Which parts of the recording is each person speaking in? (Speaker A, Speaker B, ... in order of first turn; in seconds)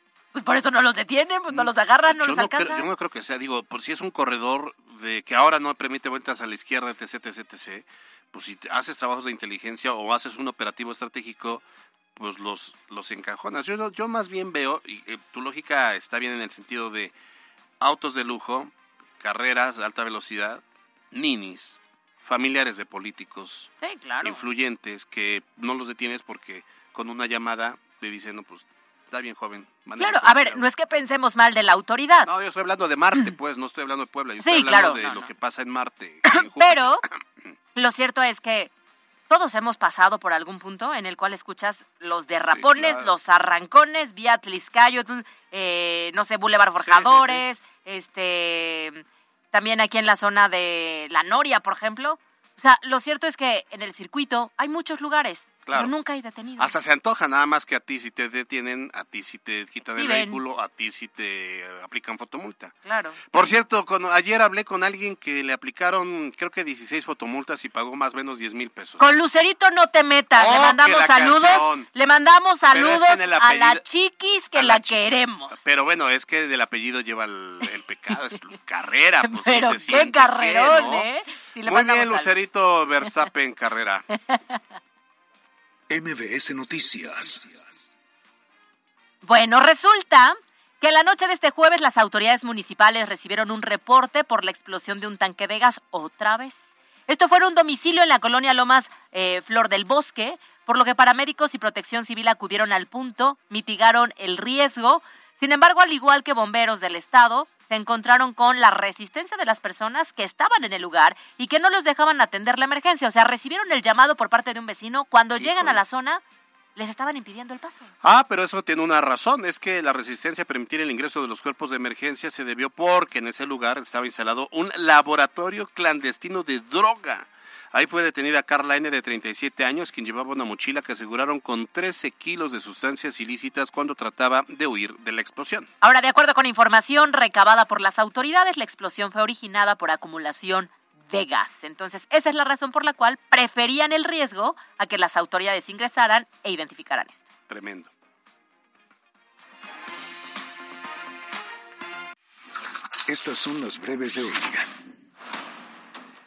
Speaker A: 0.3-2.8, 23.8-24.4, 30.0-32.3, 34.4-35.3, 36.2-37.0, 37.7-38.7, 39.3-56.7, 59.8-60.4, 62.8-63.2, 69.0-75.6, 79.2-82.5, 84.3-84.6, 89.2-116.2, 116.8-117.9, 135.8-147.2
Speaker B: 1.5-11.6, 12.2-17.1, 17.8-23.7, 24.2-30.6, 32.2-37.2, 42.5-43.1, 46.8-47.4, 55.6-55.9, 56.6-62.8, 63.3-69.0, 70.3-71.9, 72.7-73.8, 74.5-81.1, 81.6-84.0, 115.4-115.8, 118.0-135.7, 147.5-147.9
Speaker C: 85.9-87.7, 153.1-154.7